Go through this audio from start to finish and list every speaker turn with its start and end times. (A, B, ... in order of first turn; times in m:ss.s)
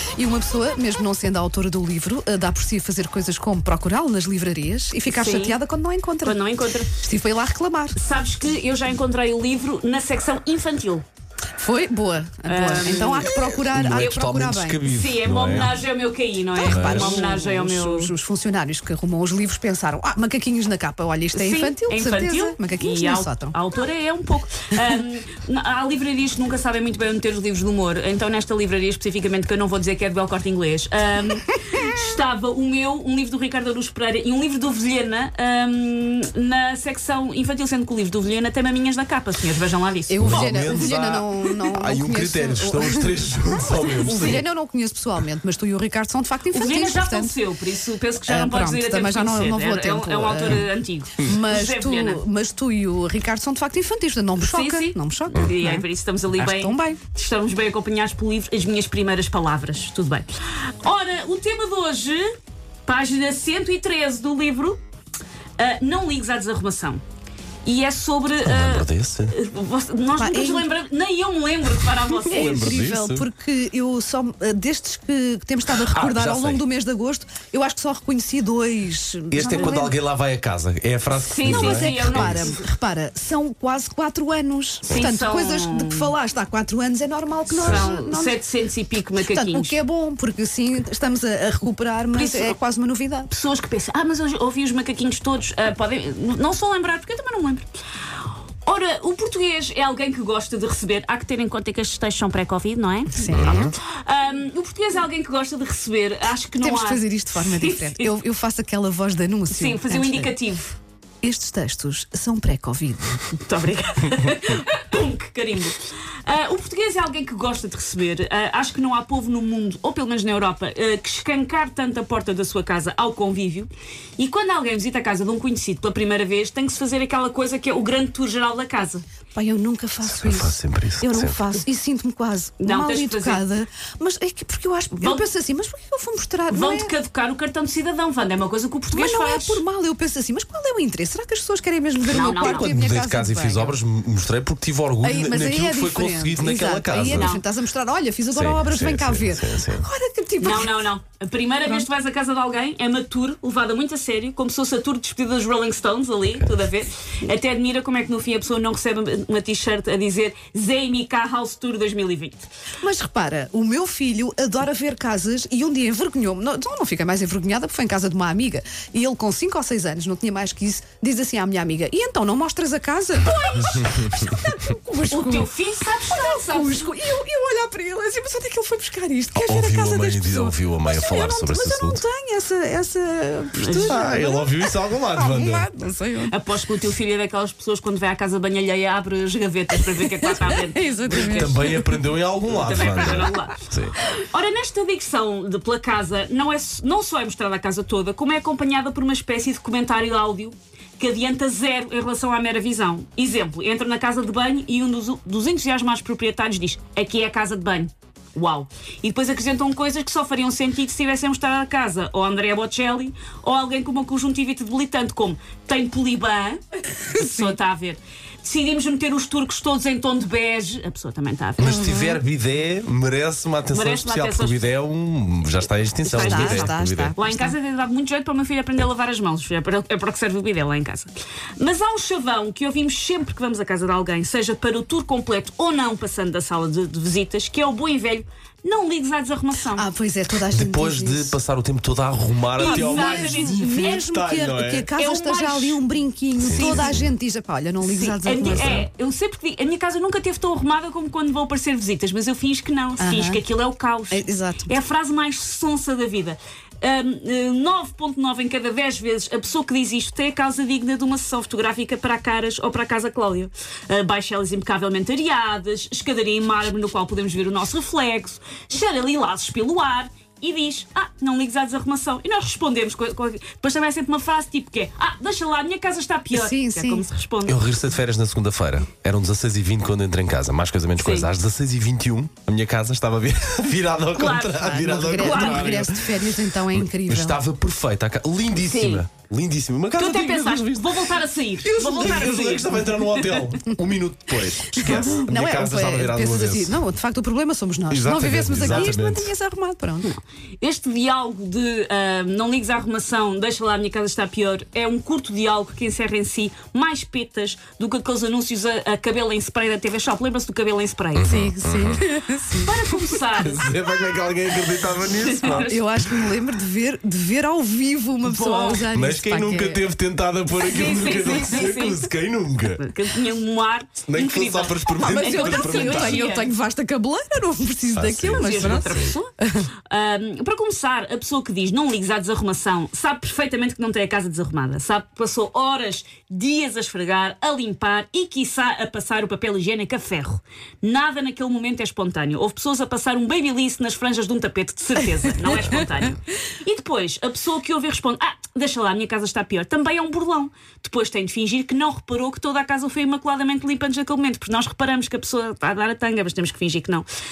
0:00.2-0:06.4 A
0:05.1-0:05.6 B
0:06.2-0:06.9 B
0:07.0-0:08.0 A
0:08.0-0:11.0 B
0:11.6-0:14.9 A
0:12.5-0:13.4 B
0:13.2-0:15.8 C
0:13.9-0:14.3 B
0:14.8-0:18.1 B
0:16.6-0:23.6 A
0:16.6-0:17.4 C
0:21.3-0:40.5 B
0:40.1-0:47.4 A
0:40.2-0:44.4 C
0:46.5-0:52.2 B
0:48.3-0:50.7 A
0:51.2-0:55.8 A
0:54.4-1:02.3 B
0:56.4-0:57.0 A
1:02.9-1:04.8 B
1:05.6-1:07.0 B
1:07.6-1:12.8 B
1:08.4-1:09.4 C
1:10.2-1:10.7 A
1:12.2-1:13.3 C
1:12.3-1:19.9 A
1:15.8-1:16.6 C
1:19.3-1:22.5 C
1:21.2-1:22.7 B
1:21.5-1:28.4 A
1:24.8-1:26.1 B
1:27.5-1:29.8 B
1:27.6-1:27.9 C
1:29.2-1:33.3 A
1:32.1-1:32.6 B
1:33.3-1:37.6 B
1:38.6-1:48.1 B
1:43.2-1:43.7 A
1:43.3-1:43.8 C
1:46.6-1:50.4 A
1:49.5-1:50.8 B
1:51.2-1:53.2 A
1:53.3-2:09.0 B
2:09.4-2:16.9 A
2:10.0-2:11.5 C
2:12.6-2:13.4 B
2:16.5-2:19.6 B
2:18.9-2:23.8 A
2:22.1-2:27.4 C
2:22.1-2:22.7 B
2:25.0-2:30.8 A
2:27.1-2:27.4 B
2:28.3-2:29.9 C
2:30.4-2:42.4 B
2:42.8-2:55.5 A
2:53.2-2:53.9 B
2:53.7-2:54.0 C
2:55.1-2:56.9 B
2:56.0-3:06.4 A
2:59.4-3:02.0 C
3:03.6-3:04.2 B
3:03.7-3:05.7 C
3:06.3-3:11.6 B
3:09.9-3:12.1 A
3:11.1-3:14.0 C
3:12.5-3:13.6 B
3:12.9-3:13.4 A
3:14.2-3:42.0 B
3:37.1-3:37.6 A
3:41.6-3:47.2 C
3:41.6-3:42.2 A
3:43.7-3:44.7 B
3:46.0-3:59.9 B
3:46.1-3:47.6 A
3:59.8-4:01.4 A
4:00.4-4:04.9 C
4:02.6-4:03.8 B
4:02.6-4:08.8 A
4:05.0-4:05.8 B
4:06.4-4:07.1 C
4:06.5-4:07.0 B
4:07.8-4:37.6 B
4:08.4-4:08.9 C
4:13.0-4:13.4 A
4:14.1-4:14.8 A
4:36.3-4:37.1 A
4:37.4-4:56.8 C
4:41.0-4:41.3 B
4:44.1-4:45.8 B
4:44.5-4:47.4 A
4:48.6-4:49.1 B
4:50.0-4:53.4 B
4:54.7-5:00.1 A
4:57.9-4:59.3 C
5:00.0-5:11.3 B
5:11.2-5:12.0 C
5:11.3-5:13.2 A
5:12.5-5:13.7 B
5:13.4-5:16.3 C
5:15.0-5:15.8 B
5:15.4-5:19.8 A
5:18.2-5:18.8 B
5:18.9-5:22.9 C
5:20.6-5:22.1 B
5:21.0-5:21.4 A
5:22.8-5:26.5 B
5:24.0-5:26.2 C
5:24.9-5:29.7 A
5:27.9-5:29.1 C
5:28.4-5:29.3 B
5:29.9-5:57.1 B